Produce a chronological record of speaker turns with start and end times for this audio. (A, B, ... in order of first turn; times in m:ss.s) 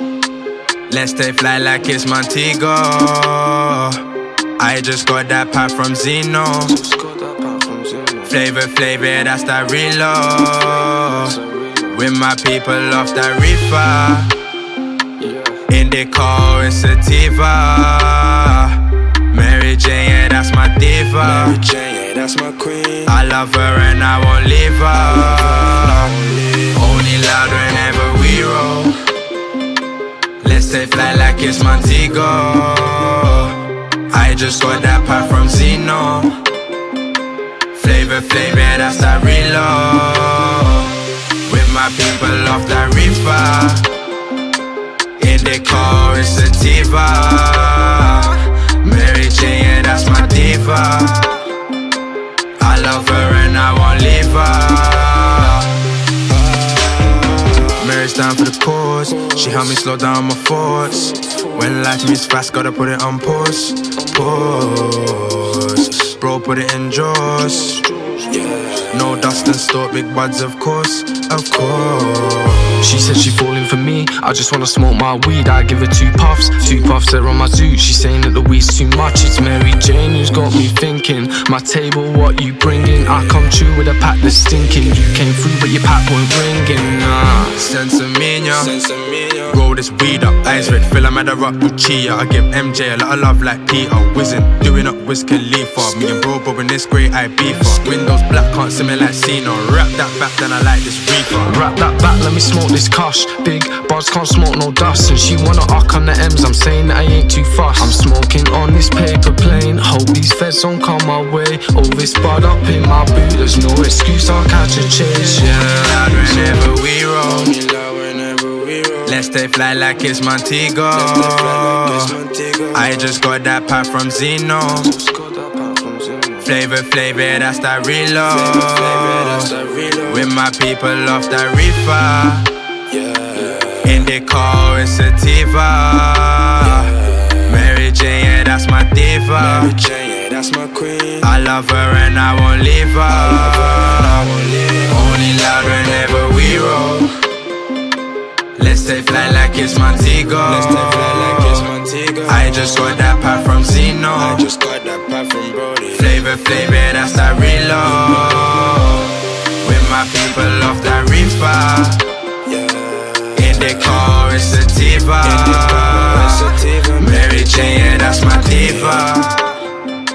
0:00.9-0:04.0 A
0:04.6-0:06.8 A
0:06.6-0:08.3 B
0:08.2-0:11.4 A
0:11.2-0:12.0 B
0:11.9-0:14.3 A
0:15.2-0:15.6 B
0:15.7-0:21.6 A
0:21.2-0:23.1 C
0:23.0-0:26.1 A
0:24.9-0:26.8 C
0:26.7-0:29.0 A
0:30.4-0:33.6 A
0:34.1-0:36.4 A
0:37.7-0:43.9 A
0:45.2-0:51.5 A
0:52.6-0:55.8 A
0:56.3-0:57.7 C
0:57.7-1:07.8 A
0:59.2-0:59.8 C
1:07.4-1:08.8 B
1:08.3-1:09.0 C
1:08.9-1:12.4 A
1:11.6-1:12.8 C
1:12.8-1:27.6 B
1:22.6-1:23.5 C
1:24.6-1:25.1 C
1:27.5-1:28.7 A
1:28.5-1:29.6 C
1:29.5-1:41.6 A
1:30.5-1:30.8 C
1:41.4-1:55.6 B
1:55.3-1:57.5 A
1:56.2-1:56.6 C
1:57.2-1:59.2 C
1:59.0-2:02.2 A
2:00.9-2:03.0 C
2:02.7-2:04.9 A
2:04.8-2:06.5 B
2:06.4-2:12.5 A
2:08.2-2:10.3 C
2:12.9-2:14.1 C
2:13.8-2:19.8 A
2:16.6-2:17.5 C
2:19.4-2:21.3 C
2:21.2-2:24.3 A
2:23.1-2:25.1 C
2:24.9-2:27.1 A
2:28.6-2:31.7 A
2:30.4-2:33.0 C
2:32.3-2:34.5 A
2:34.2-2:36.2 C
2:35.9-2:42.0 A
2:38.0-2:38.3 C
2:42.4-2:44.2 C
2:43.4-2:49.5 A
2:45.2-2:49.2 C